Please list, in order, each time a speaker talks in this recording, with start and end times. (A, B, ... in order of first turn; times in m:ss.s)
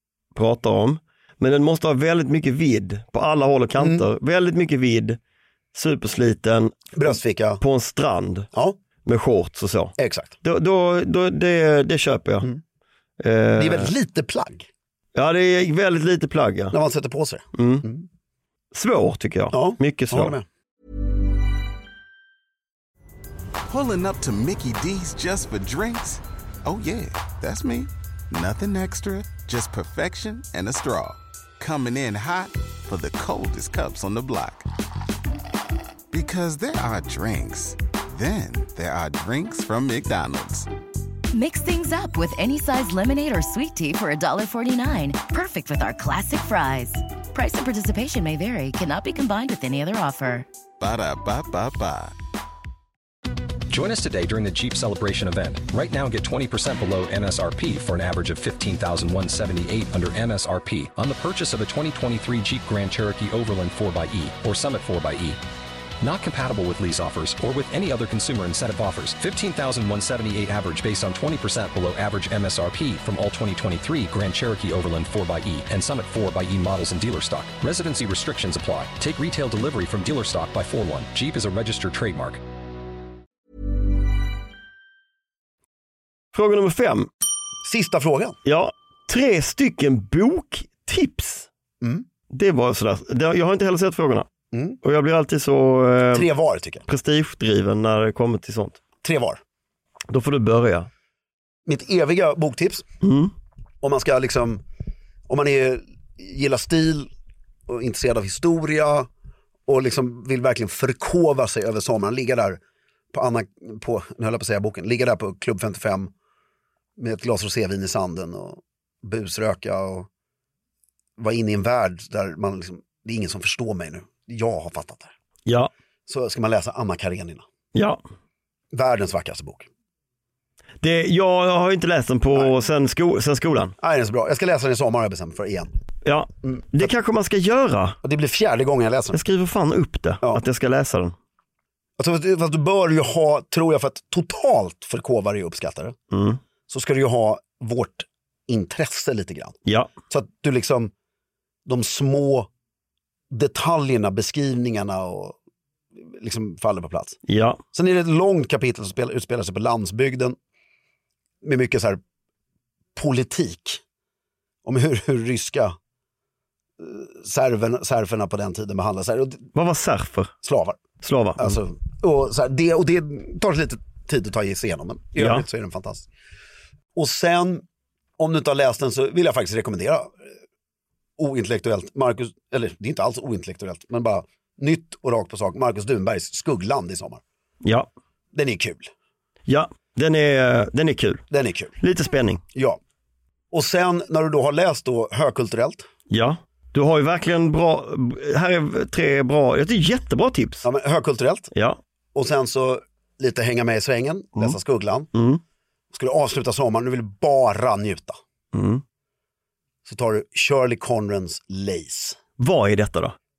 0:00.3-0:05.2 A
0:03.8-0:04.0 B
0:05.7-0:08.5 A
0:06.9-0:07.6 B
0:09.0-0:12.5 A
0:10.0-0:10.4 B
0:13.2-0:13.9 A
0:13.6-0:14.7 B
0:15.2-0:16.8 A
0:16.7-0:18.0 B
0:17.5-0:17.9 A
0:18.7-0:20.4 A
0:19.5-0:20.4 B
0:23.7-0:34.7 C
0:36.1-0:40.7 C
0:41.3-0:50.5 D
0:50.8-0:52.1 C
0:53.7-1:05.4 E
1:06.0-1:22.4 E
1:26.3-1:27.1 A
1:27.6-1:28.4 B
1:28.4-1:31.5 A
1:32.3-1:34.3 A
1:34.5-1:34.8 B
1:34.8-1:36.3 A
1:36.1-1:36.8 B
1:36.9-1:38.8 A
1:39.0-1:39.4 B
1:40.1-1:40.9 A
1:41.7-1:42.8 B
1:43.0-1:43.3 A
1:43.8-1:44.6 B
1:45.3-1:47.1 B
1:47.7-1:49.1 B
1:49.7-1:52.6 B
1:53.1-1:56.1 B
1:57.0-2:00.1 B
2:01.2-2:05.1 B
2:06.1-2:07.4 B
2:07.7-2:08.0 A
2:08.7-2:09.7 B
2:10.8-2:13.8 A
2:13.8-2:15.7 B
2:16.0-2:18.0 A
2:16.4-2:16.9 B
2:18.0-2:19.2 B
2:19.1-2:21.2 A
2:22.0-2:26.0 B
2:26.1-2:26.4 A
2:26.7-2:29.6 B
2:29.7-2:29.9 A
2:30.1-2:30.9 B
2:31.7-2:32.5 B
2:33.3-2:35.4 B
2:36.1-2:37.2 B
2:37.3-2:37.6 A
2:37.7-2:40.4 B
2:41.4-2:42.0 B
2:43.0-2:43.8 B
2:44.6-2:45.7 B
2:46.8-2:49.5 B
2:49.5-2:50.3 A
2:50.4-2:50.8 B
2:51.0-2:51.6 A
2:51.4-2:56.1 B
2:55.2-2:55.4 A
2:57.0-2:57.6 B
2:58.2-3:00.1 B
3:01.2-3:07.2 B
3:07.6-3:07.9 A
3:08.3-3:08.9 B
3:09.5-3:11.2 A
3:11.3-3:11.8 B
3:11.8-3:12.4 A
3:12.5-3:12.8 B
3:13.5-3:15.9 B
3:16.1-3:20.7 A
3:20.6-3:21.5 B
3:21.5-3:21.8 A
3:22.2-3:25.1 B
3:25.1-3:25.4 A
3:25.9-3:28.2 B
3:28.5-3:28.8 A
3:29.8-3:32.2 B
3:32.4-3:33.2 A